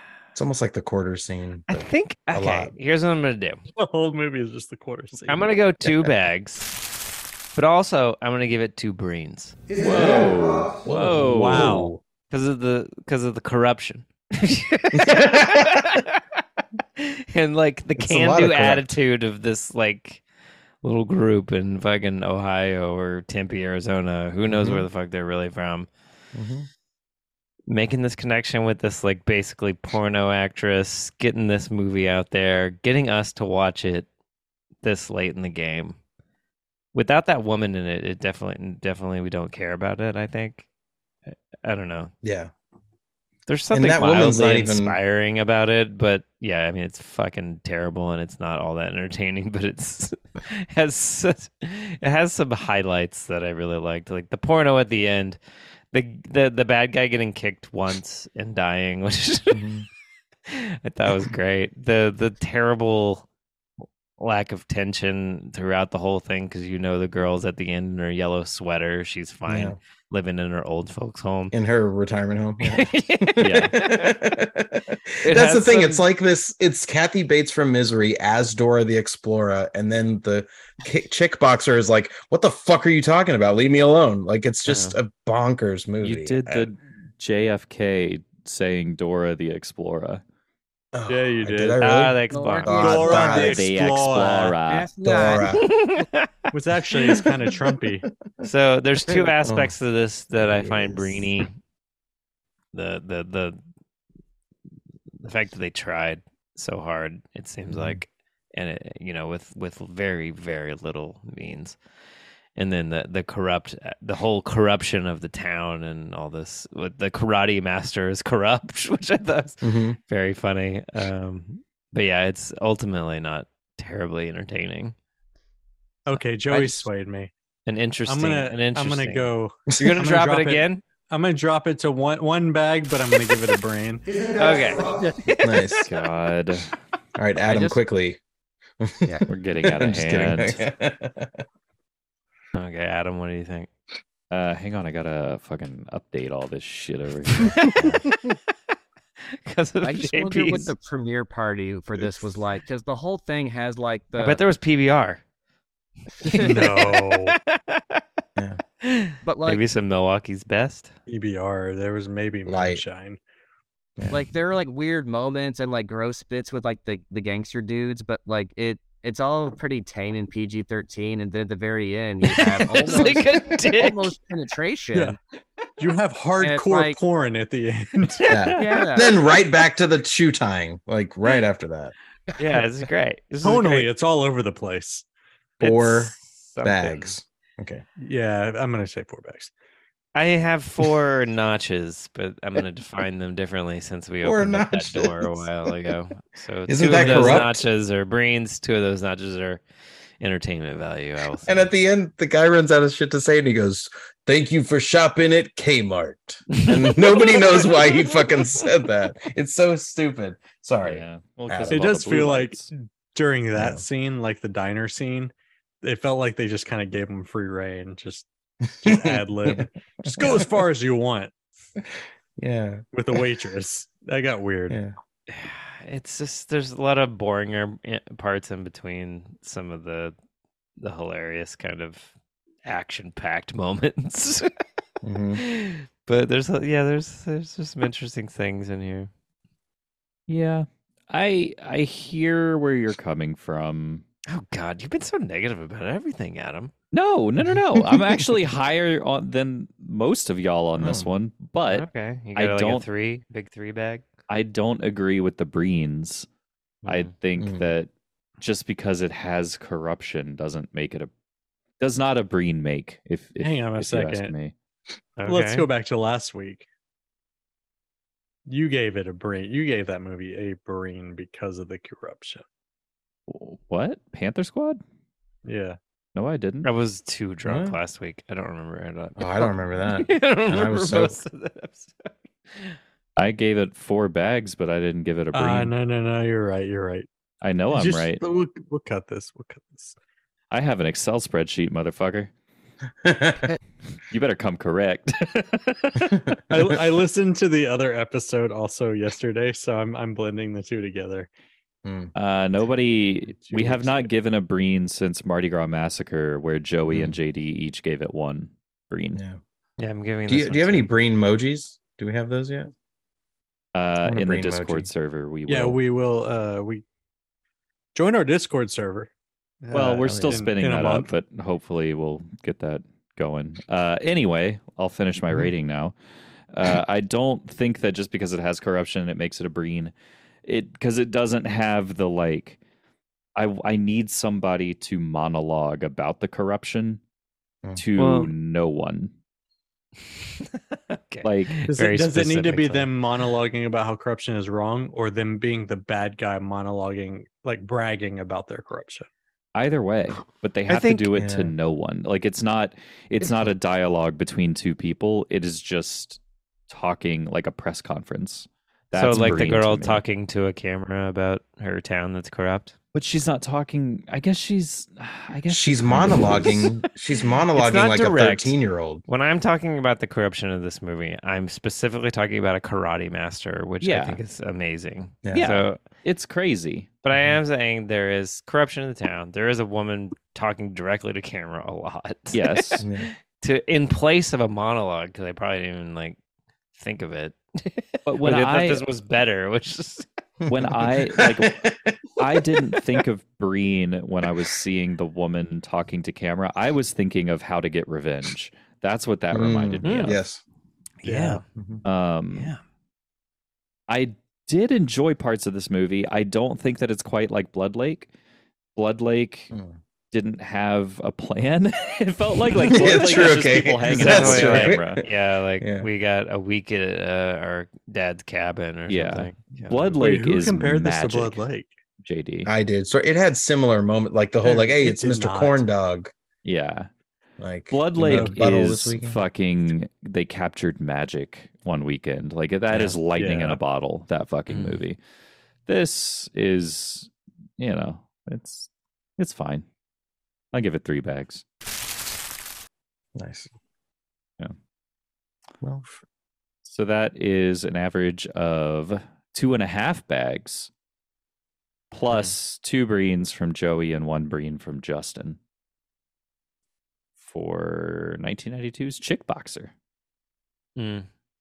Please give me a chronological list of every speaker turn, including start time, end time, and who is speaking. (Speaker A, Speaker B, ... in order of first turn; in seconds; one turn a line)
Speaker A: 0.3-2.7
Speaker B: 1.7-3.6
Speaker C: 3.7-5.6
Speaker B: 5.3-6.7
Speaker B: 7.5-9.6
Speaker D: 9.8-11.7
Speaker A: 10.8-12.0
Speaker C: 11.2-11.9
Speaker B: 12.3-16.2
Speaker A: 14.9-15.9
Speaker B: 17.0-20.2
Speaker A: 17.9-18.9
Speaker B: 20.8-25.9
Speaker A: 24.5-24.9
Speaker A: 26.3-26.7
Speaker B: 27.7-34.1
Speaker B: 34.8-36.0
Speaker B: 36.9-40.6
Speaker B: 41.3-42.1
Speaker A: 42.2-42.5
Speaker B: 43.5-55.4
Speaker A: 43.7-45.0
Speaker B: 55.9-59.6
Speaker A: 59.5-59.9
Speaker B: 60.5-63.2
Speaker B: 64.2-71.5
Speaker A: 69.5-69.8
Speaker A: 71.5-86.7
Speaker B: 72.6-74.2
Speaker D: 73.4-73.7
Speaker B: 75.2-76.0
Speaker B: 84.7-84.9
Speaker D: 86.0-90.2
Speaker A: 90.9-93.6
Speaker C: 91.1-91.8
Speaker B: 91.8-93.2
Speaker E: 92.3-93.5
Speaker C: 92.8-94.6
Speaker D: 93.4-94.9
Speaker E: 94.7-95.5
Speaker A: 95.0-95.7
Speaker B: 95.6-96.3
Speaker C: 96.5-98.0
Speaker B: 98.4-101.5
Speaker A: 99.1-99.7
Speaker A: 100.3-101.3
Speaker B: 102.7-103.6
Speaker B: 105.2-111.8
Speaker A: 107.7-108.0
Speaker B: 112.5-124.9
Speaker A: 119.6-120.0
Speaker C: 126.0-127.3
Speaker B: 127.7-130.8
Speaker C: 128.1-134.0
Speaker B: 134.4-135.8
Speaker A: 135.4-135.9
Speaker D: 135.9-136.7
Speaker A: 137.2-138.2
Speaker E: 137.4-137.8
Speaker A: 138.8-141.4
Speaker D: 139.3-140.6
Speaker B: 142.5-143.7
Speaker D: 144.3-147.7
Speaker B: 147.5-148.4
Speaker A: 147.8-148.0
Speaker B: 149.3-150.7
Speaker E: 149.8-154.4
Speaker B: 154.2-155.2
Speaker B: 156.2-158.0
Speaker C: 156.4-157.3
Speaker B: 158.8-160.9
Speaker E: 159.2-159.6
Speaker C: 161.1-163.2
Speaker A: 162.4-162.8
Speaker A: 164.0-164.2
Speaker E: 164.1-175.2
Speaker B: 172.3-174.1
Speaker C: 175.8-178.4
Speaker E: 176.4-177.0
Speaker A: 178.3-181.9
Speaker E: 178.5-179.2
Speaker B: 182.4-183.9
Speaker C: 183.4-185.0
Speaker A: 185.6-187.8
Speaker B: 185.6-187.1
Speaker C: 188.0-189.5
Speaker B: 190.1-199.6
Speaker A: 194.2-195.5
Speaker A: 196.7-197.6
Speaker C: 196.9-197.5
Speaker B: 200.2-201.7
Speaker A: 201.4-212.0
Speaker B: 206.6-207.5
Speaker D: 210.8-212.7
Speaker C: 211.7-212.6
Speaker C: 213.1-218.3
Speaker A: 213.6-213.8
Speaker A: 218.8-220.6
Speaker C: 218.8-221.3
Speaker A: 222.4-223.2
Speaker C: 222.9-224.8
Speaker A: 224.7-224.9
Speaker B: 225.3-230.1
Speaker B: 230.8-232.1
Speaker B: 232.6-234.5
Speaker A: 235.0-235.4
Speaker B: 235.3-239.1
Speaker D: 240.3-244.0
Speaker B: 244.3-246.7
Speaker D: 246.9-252.8
Speaker A: 247.4-248.3
Speaker A: 250.8-251.1
Speaker B: 251.7-254.1
Speaker D: 254.3-256.3
Speaker D: 256.8-261.1
Speaker A: 256.9-257.6
Speaker D: 261.8-264.5
Speaker C: 263.4-264.3
Speaker C: 265.2-266.6
Speaker B: 265.2-265.7
Speaker C: 268.5-272.4
Speaker D: 273.3-274.8
Speaker C: 275.4-275.8
Speaker D: 276.1-276.7
Speaker B: 276.6-282.8
Speaker A: 277.4-277.8
Speaker A: 279.2-281.2
Speaker D: 283.2-285.7
Speaker C: 285.3-287.1
Speaker D: 287.4-288.2
Speaker C: 287.7-289.9
Speaker D: 290.5-292.3
Speaker A: 293.0-293.5
Speaker D: 294.1-296.1
Speaker A: 296.1-296.7
Speaker C: 296.5-301.3
Speaker A: 301.8-302.1
Speaker D: 302.1-309.2
Speaker C: 303.4-304.1
Speaker A: 306.9-307.1
Speaker A: 309.1-309.4
Speaker B: 309.8-310.9
Speaker A: 310.3-312.7
Speaker D: 313.7-315.8
Speaker A: 314.0-314.9
Speaker C: 315.5-316.8
Speaker C: 317.9-319.1
Speaker C: 319.6-321.1
Speaker D: 319.7-326.0
Speaker A: 320.1-320.5
Speaker D: 326.5-329.9
Speaker D: 330.4-332.6
Speaker D: 333.3-337.0
Speaker D: 337.8-339.1
Speaker B: 338.0-338.3
Speaker B: 340.1-342.9
Speaker D: 341.2-341.6
Speaker C: 341.7-349.1
Speaker D: 349.5-360.0
Speaker B: 350.7-351.1
Speaker A: 351.2-351.5
Speaker B: 358.9-362.8
Speaker D: 362.9-366.6
Speaker A: 365.5-369.0
Speaker B: 366.4-366.7
Speaker B: 367.5-368.6
Speaker B: 369.1-375.8
Speaker D: 373.8-374.2
Speaker D: 375.3-377.0
Speaker B: 377.0-386.2
Speaker D: 382.3-382.8
Speaker A: 382.8-383.1
Speaker B: 386.7-390.1
Speaker D: 388.1-388.8
Speaker A: 390.4-392.2
Speaker D: 390.5-391.6
Speaker D: 392.2-400.2
Speaker A: 399.3-400.4
Speaker B: 399.8-400.2
Speaker B: 401.0-401.4
Speaker C: 401.0-401.4
Speaker A: 401.6-401.8
Speaker D: 401.8-402.5
Speaker B: 402.3-402.6
Speaker D: 403.9-408.1
Speaker D: 408.8-409.5
Speaker A: 409.5-409.8
Speaker D: 410.1-415.0
Speaker A: 412.7-415.0
Speaker B: 413.9-419.9
Speaker A: 415.6-415.9
Speaker D: 418.9-421.4
Speaker C: 420.0-421.8
Speaker D: 422.0-422.5
Speaker A: 422.4-426.1
Speaker C: 424.4-425.7
Speaker D: 426.4-426.9
Speaker A: 427.4-429.2
Speaker D: 427.7-435.0
Speaker C: 428.0-428.4
Speaker C: 432.7-433.6
Speaker B: 434.5-434.8
Speaker D: 435.6-439.6
Speaker D: 440.5-441.4
Speaker A: 443.1-443.5
Speaker A: 445.6-446.0
Speaker D: 446.6-450.7
Speaker D: 451.9-455.4
Speaker D: 457.2-459.7
Speaker B: 460.8-461.1